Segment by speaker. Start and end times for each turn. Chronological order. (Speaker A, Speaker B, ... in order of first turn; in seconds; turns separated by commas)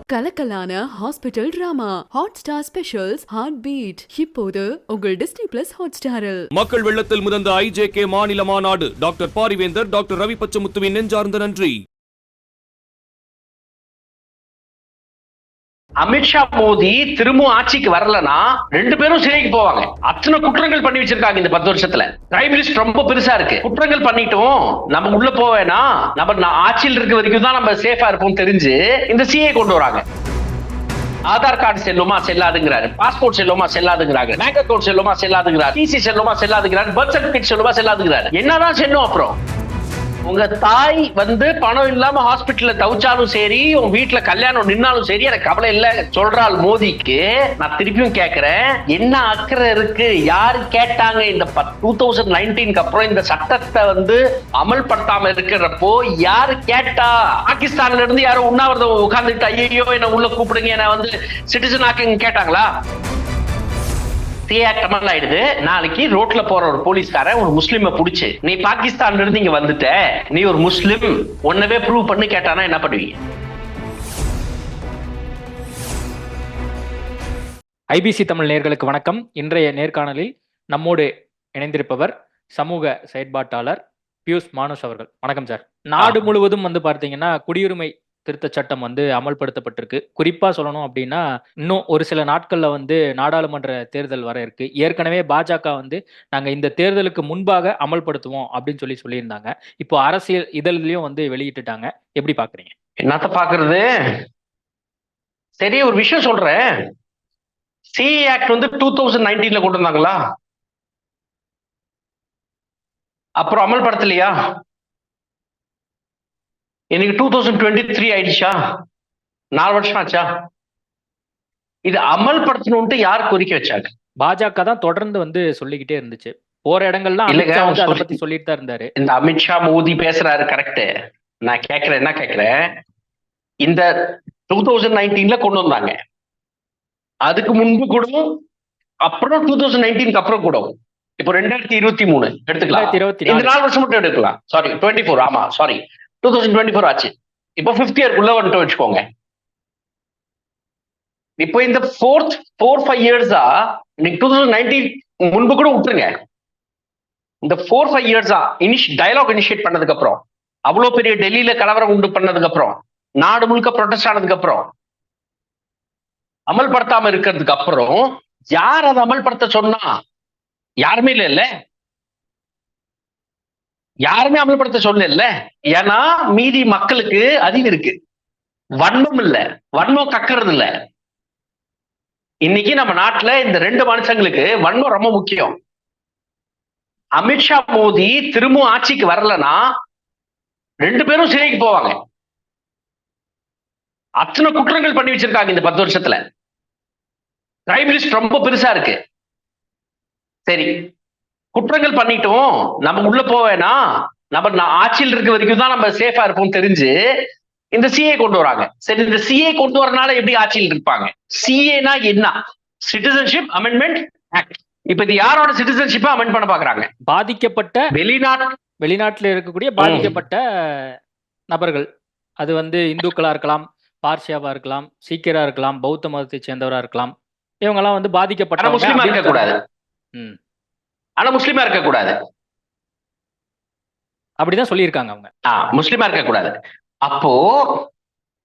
Speaker A: 0.1-6.5, Speaker B: 6.5-11.7, Speaker C: 16.0-30.0, Speaker C: 31.3-39.4, Speaker C: 40.3-62.7, Speaker C: 64.5-73.2, Speaker D: 77.9-102.7, Speaker C: 103.0-103.9, Speaker C: 105.6-106.6, Speaker C: 107.9-110.2, Speaker C: 113.4-114.3, Speaker C: 116.9-118.5, Speaker C: 119.6-120.2, Speaker C: 121.9-123.9, Speaker D: 124.2-128.9, Speaker C: 127.3-128.1, Speaker C: 129.0-130.9, Speaker C: 131.4-132.5, Speaker C: 134.5-135.9, Speaker C: 137.3-138.2, Speaker C: 139.1-149.0, Speaker D: 142.7-143.6, Speaker C: 151.4-153.5, Speaker C: 154.0-156.1, Speaker C: 157.4-164.7, Speaker C: 166.5-168.0, Speaker C: 168.5-169.9, Speaker C: 170.8-171.5, Speaker C: 174.1-177.9, Speaker C: 178.8-180.7, Speaker C: 182.4-185.5, Speaker C: 187.2-189.6, Speaker C: 190.8-191.9, Speaker C: 194.2-196.2, Speaker C: 197.7-199.0, Speaker C: 201.6-203.8, Speaker C: 204.3-206.9, Speaker C: 207.7-212.3, Speaker C: 212.8-216.9, Speaker D: 217.1-217.9, Speaker C: 217.9-218.4, Speaker D: 218.8-220.4, Speaker C: 219.8-220.1, Speaker D: 221.5-221.8, Speaker D: 222.4-227.1, Speaker D: 227.6-229.5, Speaker C: 228.6-229.6, Speaker C: 231.2-232.1, Speaker D: 234.4-235.3, Speaker C: 235.5-236.5, Speaker C: 237.1-237.8